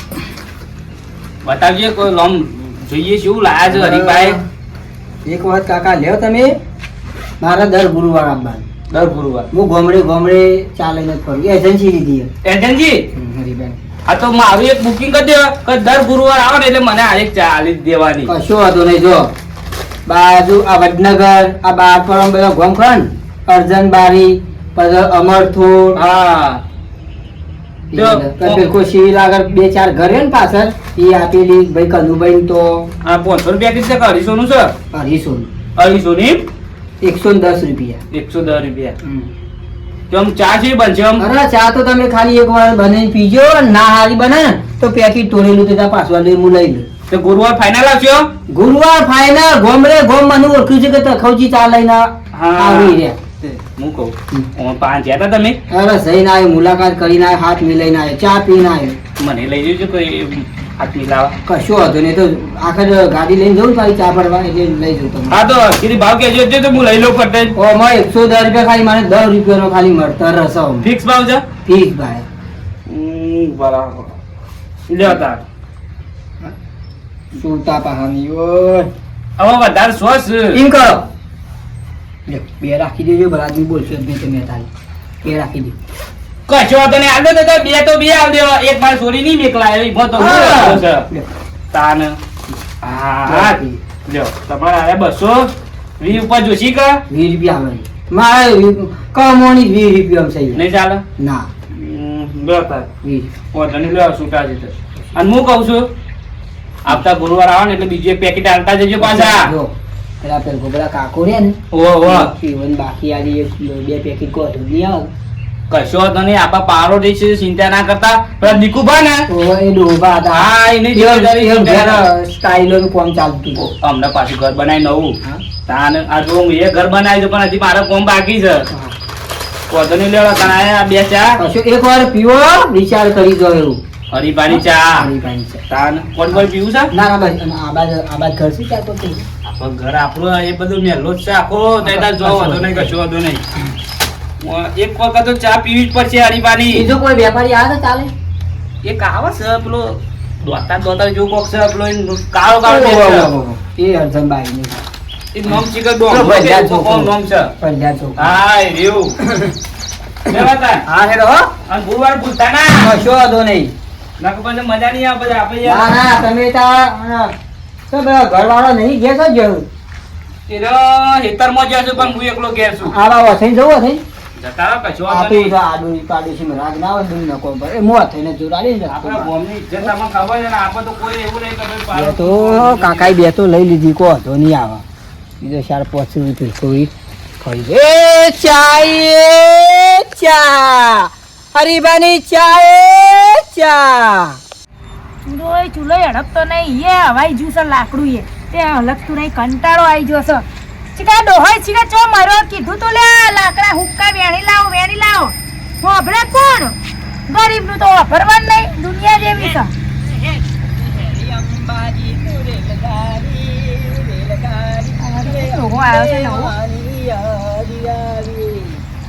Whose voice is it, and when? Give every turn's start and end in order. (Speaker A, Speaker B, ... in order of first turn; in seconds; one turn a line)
Speaker A: 1.4-4.4
Speaker B: 3.7-4.4
Speaker B: 5.2-6.6
Speaker B: 7.4-8.7
Speaker A: 8.9-9.5
Speaker B: 9.5-12.3
Speaker A: 12.4-13.0
Speaker B: 13.2-13.8
Speaker A: 14.1-18.3
Speaker B: 18.3-19.3
Speaker B: 20.1-26.0
Speaker A: 25.9-26.6
Speaker B: 27.9-32.9
Speaker A: 27.9-28.6
Speaker A: 33.0-34.7
Speaker B: 34.9-35.5
Speaker A: 35.8-36.5
Speaker B: 37.0-38.0
Speaker A: 38.1-39.0
Speaker B: 39.0-39.3
Speaker A: 40.1-41.2
Speaker B: 41.2-46.9
Speaker A: 47.1-48.3
Speaker B: 48.5-53.2
Speaker A: 52.3-55.6
Speaker B: 55.7-59.0
Speaker A: 59.2-61.4
Speaker B: 61.5-65.4
Speaker A: 65.3-67.5
Speaker B: 67.5-70.9
Speaker A: 70.8-71.4
Speaker B: 71.7-72.3
Speaker A: 72.9-74.2
Speaker A: 74.9-75.4
Speaker B: 77.3-78.9
Speaker A: 79.4-80.6
Speaker B: 80.5-81.0
Speaker B: 82.3-84.7
Speaker B: 85.2-85.8
Speaker A: 86.5-91.1
Speaker B: 90.2-91.3
Speaker A: 91.7-92.2
Speaker A: 92.8-95.5
Speaker B: 93.3-93.8
Speaker A: 96.0-97.0
Speaker B: 97.1-100.6
Speaker A: 100.5-101.0
Speaker B: 101.2-101.5
Speaker A: 101.7-102.9
Speaker B: 103.0-103.3
Speaker A: 103.5-105.9
Speaker A: 106.8-109.5
Speaker B: 109.0-109.7
Speaker B: 110.2-115.1
Speaker A: 111.7-112.3
Speaker A: 115.7-119.2
Speaker B: 119.3-123.6
Speaker A: 120.3-122.0
Speaker A: 123.6-125.2
Speaker A: 125.7-128.7
Speaker A: 129.7-131.4
Speaker B: 131.4-133.8
Speaker A: 134.1-135.1
Speaker B: 134.5-135.6
Speaker A: 135.7-136.9
Speaker B: 136.3-139.3
Speaker A: 139.5-143.4
Speaker B: 141.8-142.9
Speaker A: 144.4-146.9
Speaker B: 146.7-148.1
Speaker A: 148.8-153.3
Speaker B: 152.6-154.8
Speaker A: 155.3-157.5
Speaker B: 155.5-158.2
Speaker A: 158.2-159.2
Speaker B: 159.2-159.5
Speaker A: 160.3-160.8
Speaker B: 160.9-161.5
Speaker A: 161.7-162.9
Speaker B: 162.8-163.7
Speaker A: 164.2-166.0
Speaker B: 165.6-167.3
Speaker B: 167.9-169.7
Speaker A: 170.5-173.0
Speaker B: 172.8-174.0
Speaker A: 174.4-175.5
Speaker B: 175.1-179.3
Speaker A: 178.9-183.1
Speaker B: 181.9-184.8
Speaker B: 185.4-194.4
Speaker C: 195.3-206.8
Speaker C: 207.3-209.7
Speaker B: 210.2-218.8
Speaker C: 215.0-216.5